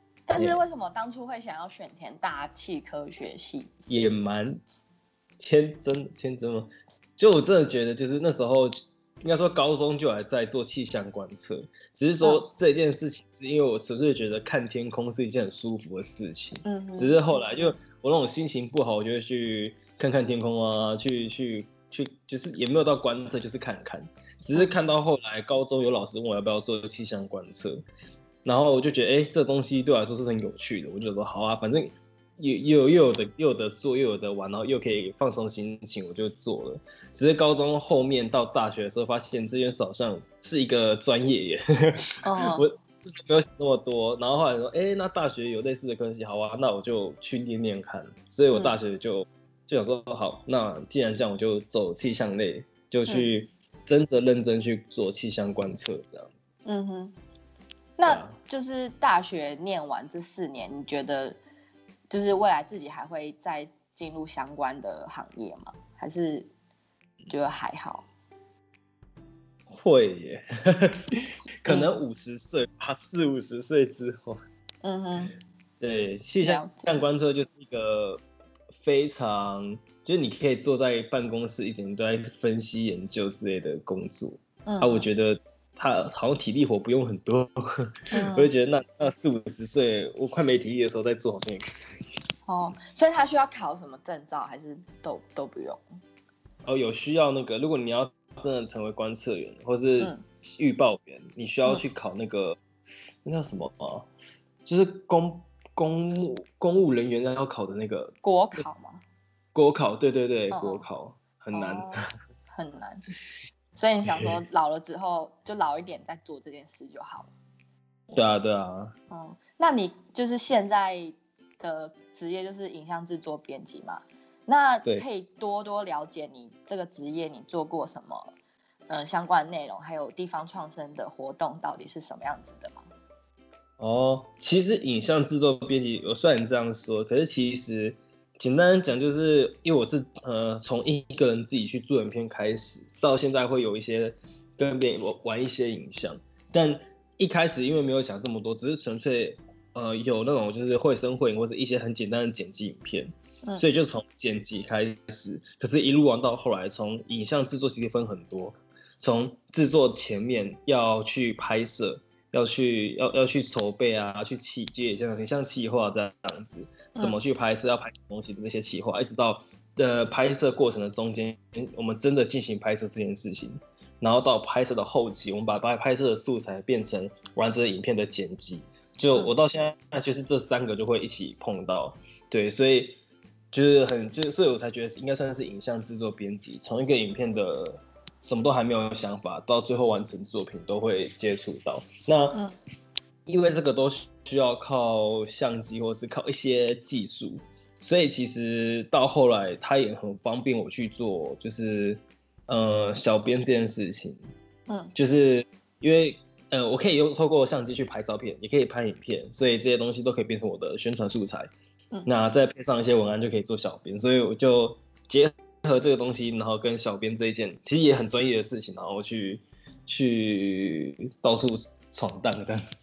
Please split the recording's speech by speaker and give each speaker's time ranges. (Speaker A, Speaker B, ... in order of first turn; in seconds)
Speaker A: 0.3-3.7, 16.6-17.2, 42.2-42.7, 48.5-48.8, 56.7-57.1, 58.0-61.4, 62.1-66.5, 67.3-68.1, 71.7-71.9, 74.8-75.4, 76.4-76.9, 84.7-85.1, 88.1-88.5, 92.5-95.8, 108.2-109.0, 110.5-110.9, 111.5-112.0, 112.5-113.0, 113.8-117.3, 119.1-128.3, 128.9-132.9
Speaker B: 0.3-0.6, 3.9-4.6, 5.4-27.8, 28.4-56.4, 58.0-58.4, 69.7-74.4, 75.8-78.2, 78.8-92.2, 96.6-102.6, 103.2-104.1, 104.7-108.6, 109.5-112.0, 114.1-114.3, 118.1-118.9, 133.8-183.0, 183.5-192.4, 193.3-204.3, 204.9-211.5, 212.1-222.6